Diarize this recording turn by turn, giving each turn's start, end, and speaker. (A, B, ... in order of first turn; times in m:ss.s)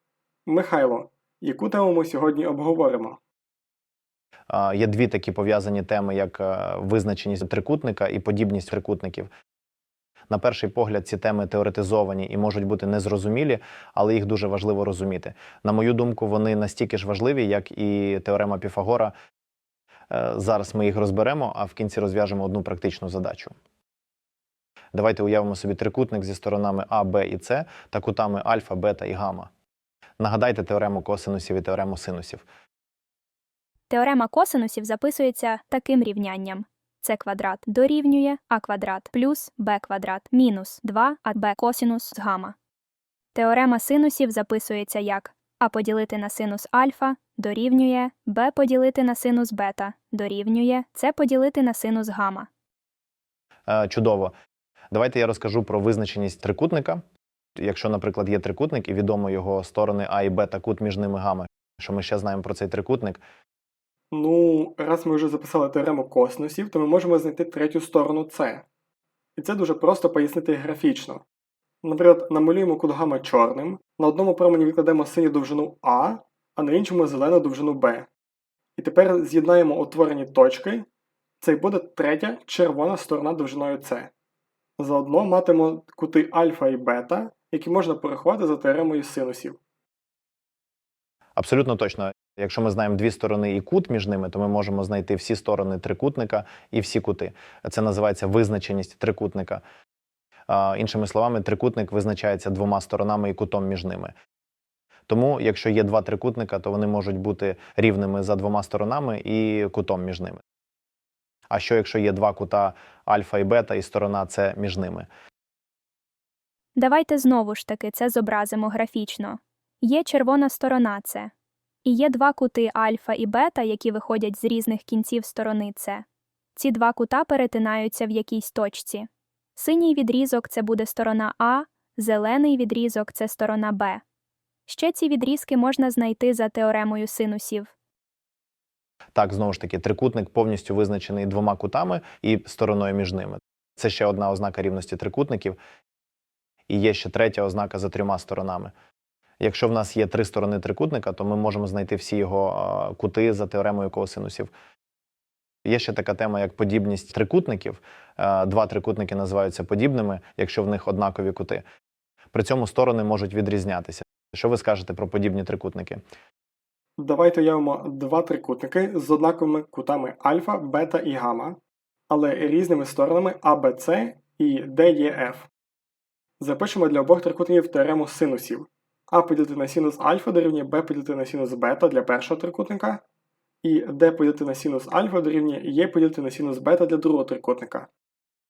0:00.5-0:03.2 A
0:04.5-0:09.3 B
0:10.3-0:19.1 B
0:20.1-0:23.6 B
0:24.9-0:29.5 B
0:30.2-0:32.4 B
0:33.9-0:42.6 C
0:43.3-0:52.5 C
0:53.7-0:54.3 B
0:54.9-0:57.0 B
0:57.6-1:03.2 B
1:04.1-1:08.7 A
1:09.4-1:11.2 A
1:11.8-1:18.1 A
1:18.8-1:20.9 A
1:21.4-1:24.1 A
1:24.8-1:29.6 A
1:31.4-1:39.6 B
1:40.5-1:44.1 B
1:45.1-1:50.4 B
1:51.5-1:55.1 B
1:56.8-2:01.3 C
2:01.8-2:06.0 C
2:06.6-2:14.0 C
2:14.7-2:17.7 C
2:19.1-2:25.6 B
2:26.7-2:28.7 B
2:29.4-2:34.5 B
2:35.6-2:41.6 B
2:42.3-2:46.0 B
2:47.0-2:51.6 A
2:52.1-2:55.5 A
2:56.4-3:03.0 A
3:03.6-3:07.9 A